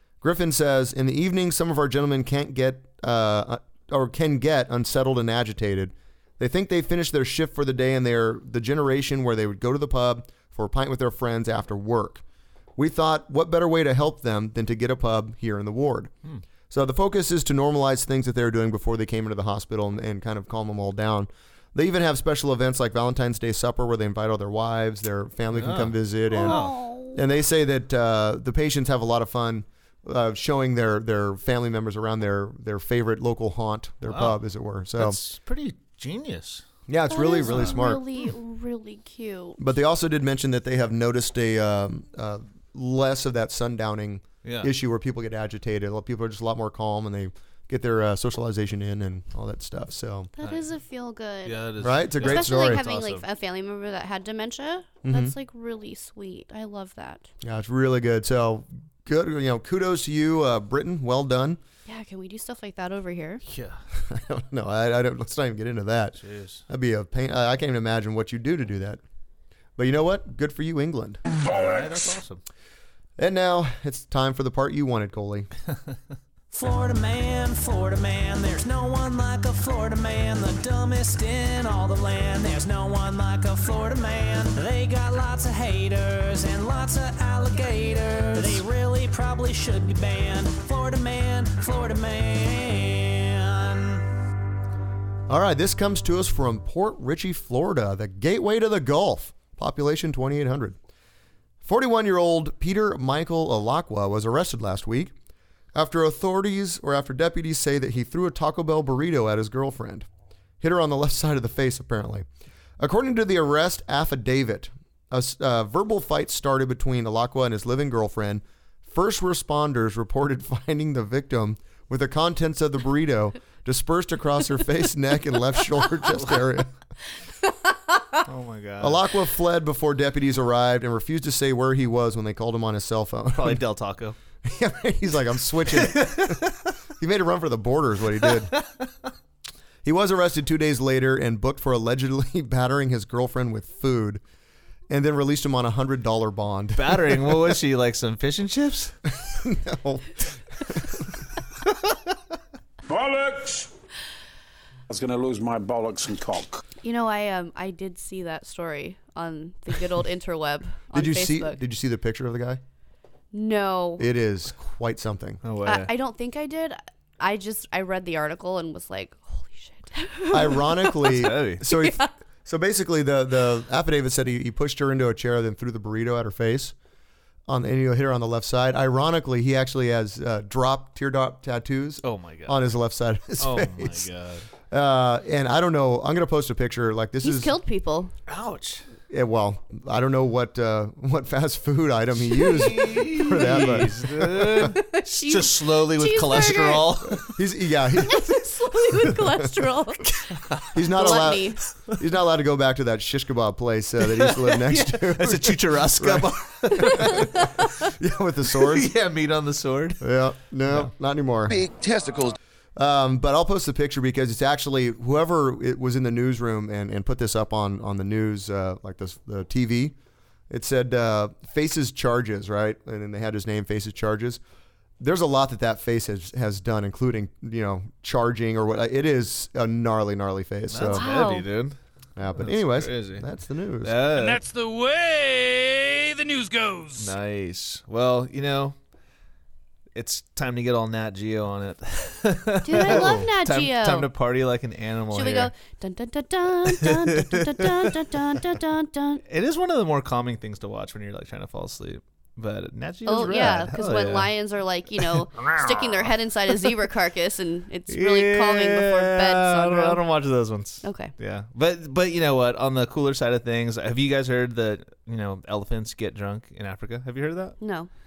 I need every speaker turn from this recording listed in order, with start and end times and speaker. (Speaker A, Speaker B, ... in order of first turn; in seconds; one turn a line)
Speaker A: 0.2-12.2
Speaker A: 12.8-16.1
Speaker A: 16.7-35.2
Speaker B: 25.5-26.8
Speaker C: 26.3-27.2
Speaker B: 34.1-34.4
Speaker B: 34.9-36.6
Speaker A: 36.9-38.0
Speaker C: 37.1-39.6
Speaker B: 37.5-37.7
Speaker A: 39.6-50.3
Speaker B: 44.4-44.7
Speaker C: 50.4-51.6
Speaker B: 51.4-53.2
Speaker A: 51.8-52.8
Speaker C: 52.2-57.3
Speaker A: 55.0-55.3
Speaker A: 57.4-61.6
Speaker C: 61.9-63.4
Speaker B: 63.5-63.8
Speaker A: 64.1-69.0
Speaker B: 66.2-66.6
Speaker A: 69.8-71.2
Speaker B: 71.3-72.4
Speaker D: 71.6-71.9
Speaker A: 73.2-75.5
Speaker E: 76.5-94.0
Speaker A: 95.3-100.8
Speaker A: 101.6-105.1
Speaker A: 105.7-110.1
Speaker A: 110.6-112.3
Speaker A: 112.8-126.7
Speaker B: 126.2-126.5
Speaker B: 128.2-129.0
Speaker A: 128.8-133.6
Speaker B: 133.3-134.2
Speaker A: 134.4-138.5
Speaker B: 135.8-136.5
Speaker B: 138.3-138.7
Speaker A: 139.8-144.2
Speaker A: 144.9-147.4
Speaker B: 146.8-148.9
Speaker A: 149.1-151.1
Speaker D: 152.8-153.7
Speaker D: 154.9-156.6
Speaker C: 156.8-161.6
Speaker A: 160.9-162.6
Speaker C: 163.3-164.1
Speaker A: 164.0-165.4
Speaker B: 165.4-165.9
Speaker C: 165.6-172.1
Speaker A: 170.3-176.7
Speaker B: 171.1-171.6
Speaker A: 177.5-184.1
Speaker B: 182.0-182.6
Speaker B: 183.4-184.5
Speaker A: 184.7-187.5
Speaker C: 187.2-188.1
Speaker B: 188.3-188.8
Speaker A: 189.1-194.7
Speaker B: 192.4-197.3
Speaker C: 194.7-196.9
Speaker A: 197.2-198.4
Speaker C: 198.0-200.1
Speaker A: 199.1-199.7
Speaker B: 200.3-200.7
Speaker A: 200.7-208.9
Speaker C: 200.9-201.6
Speaker B: 204.0-207.5
Speaker C: 206.8-207.5
Speaker B: 208.6-210.0
Speaker A: 210.0-211.6
Speaker D: 211.5-212.3
Speaker A: 212.8-219.9
Speaker A: 220.5-224.4
Speaker A: 225.0-231.1
Speaker B: 230.7-231.8
Speaker C: 230.9-231.5
Speaker A: 232.2-234.0
Speaker B: 232.3-233.2
Speaker B: 233.8-234.4
Speaker F: 234.2-237.1
Speaker B: 236.9-238.7
Speaker B: 239.9-245.5
Speaker C: 242.6-244.1
Speaker A: 242.8-243.3
Speaker C: 245.1-249.2
Speaker B: 246.9-247.8
Speaker B: 249.3-254.3
Speaker C: 253.0-260.0
Speaker B: 255.0-256.7
Speaker B: 257.9-267.6
Speaker C: 260.8-261.1
Speaker C: 267.6-267.9